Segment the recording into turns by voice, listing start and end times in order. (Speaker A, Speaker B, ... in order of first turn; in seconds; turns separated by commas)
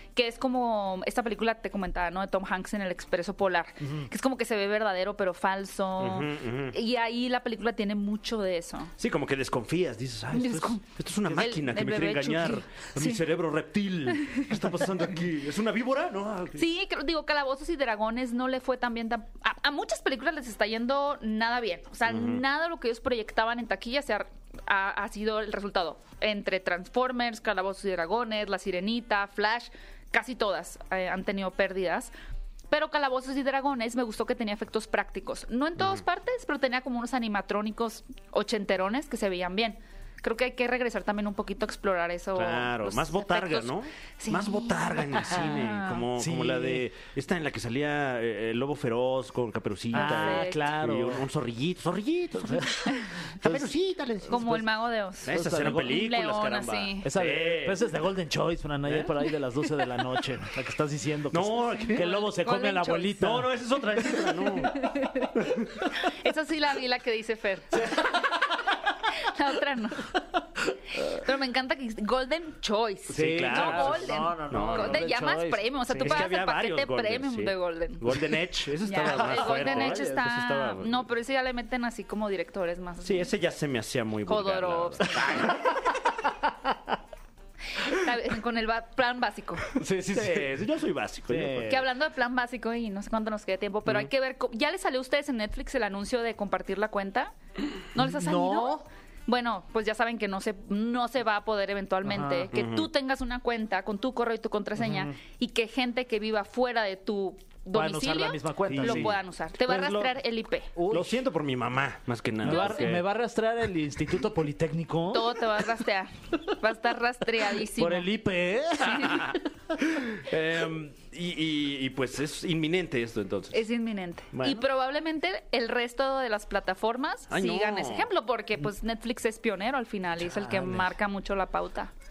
Speaker A: 0.1-8.9, Speaker B: 3.8-4.1, Speaker C: 6.0-6.8, Speaker C: 9.0-16.7, Speaker A: 10.3-13.2, Speaker A: 16.6-32.1, Speaker C: 22.1-22.4, Speaker A: 32.7-46.0, Speaker C: 35.8-36.0, Speaker C: 42.4-54.6, Speaker B: 46.2-46.9, Speaker A: 49.9-50.6, Speaker B: 49.9-51.2, Speaker B: 53.3-53.7, Speaker B: 54.2-54.7, Speaker A: 54.3-57.1, Speaker C: 55.2-57.9, Speaker B: 55.3-56.0, Speaker B: 57.0-63.5, Speaker C: 58.9-59.1, Speaker C: 61.3-62.4, Speaker A: 62.0-63.1, Speaker C: 63.1-65.7, Speaker A: 64.7-65.3, Speaker A: 66.0-68.3, Speaker B: 67.8-68.2, Speaker A: 69.1-70.1, Speaker B: 70.7-71.2, Speaker A: 71.1-78.2, Speaker B: 73.1-76.3, Speaker C: 73.1-75.1, Speaker C: 76.0-81.1, Speaker A: 78.8-83.3, Speaker B: 78.9-80.3, Speaker C: 83.0-85.5, Speaker A: 84.3-85.5, Speaker B: 85.0-86.8, Speaker A: 87.8-89.7, Speaker B: 89.7-90.6, Speaker C: 90.1-91.8, Speaker B: 91.3-91.8, Speaker A: 91.7-97.3, Speaker A: 97.9-110.7, Speaker B: 98.0-98.8, Speaker B: 102.0-102.5, Speaker C: 102.5-102.9, Speaker B: 104.8-105.2, Speaker B: 107.7-109.2, Speaker C: 108.7-110.2, Speaker B: 110.8-111.2, Speaker C: 110.9-113.0, Speaker B: 112.4-115.4, Speaker A: 112.5-113.0, Speaker A: 115.1-118.1, Speaker B: 117.8-119.4, Speaker C: 119.0-119.3, Speaker C: 119.8-123.7, Speaker A: 123.5-131.9, Speaker C: 124.3-124.7, Speaker C: 127.3-128.1, Speaker B: 130.2-130.9